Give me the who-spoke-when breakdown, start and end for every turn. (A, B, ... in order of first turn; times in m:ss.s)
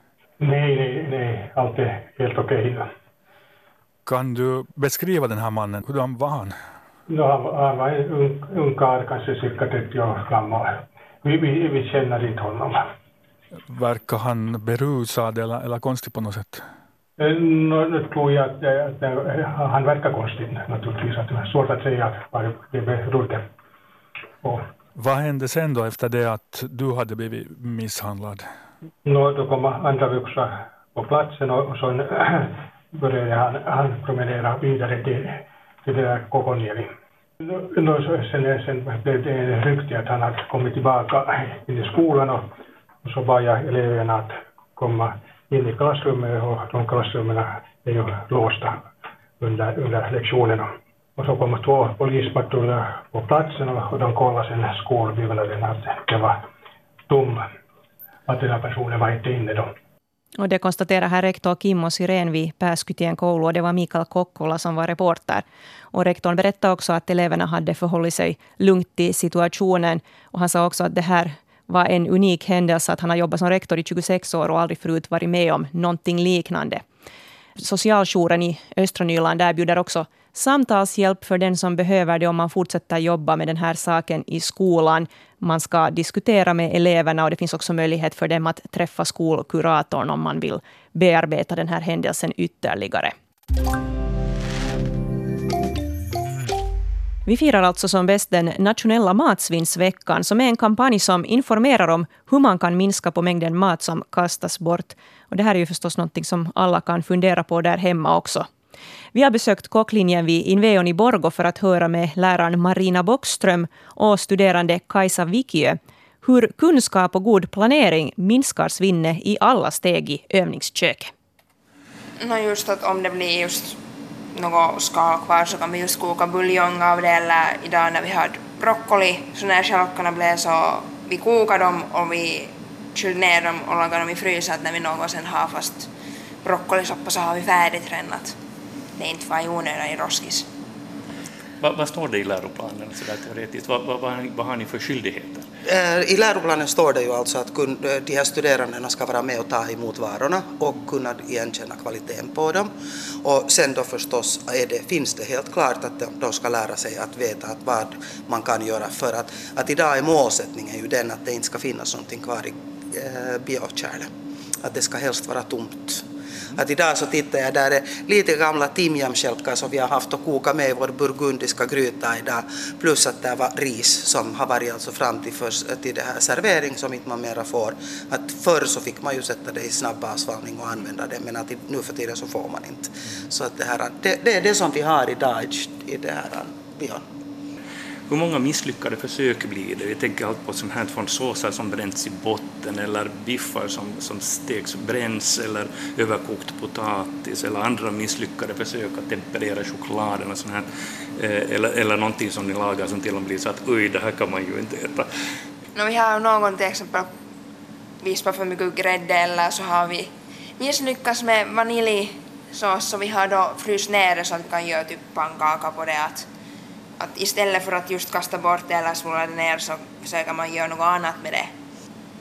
0:00.4-0:02.9 A
0:04.0-0:06.6 B
0:07.1-0:10.7 A
0:11.2-0:12.8 A
0:13.7-0:16.6 B
0:17.2-0:23.4 A
0:25.0-0:28.5 B
0:29.0-0:36.9 A
0:37.5-0:42.4 A
0:43.0-0:48.8 A
0:49.4-0:56.4 A
0:57.1-0:57.4 A
0:58.3-0:59.7 A
1:00.4-1:16.8 C
1:17.6-1:33.1 C
1:37.3-1:48.5 C
1:49.1-2:01.1 C
2:02.2-2:03.8 D
2:04.3-2:15.9 D
2:16.4-2:18.4 D
2:19.0-2:20.5 D
2:21.6-2:25.5 E
2:25.7-2:32.7 F
2:33.2-2:44.1 F
2:44.6-3:07.0 F
3:08.1-3:25.1 E
3:25.8-3:27.1 D
3:28.0-3:36.3 D
3:37.0-3:41.5 D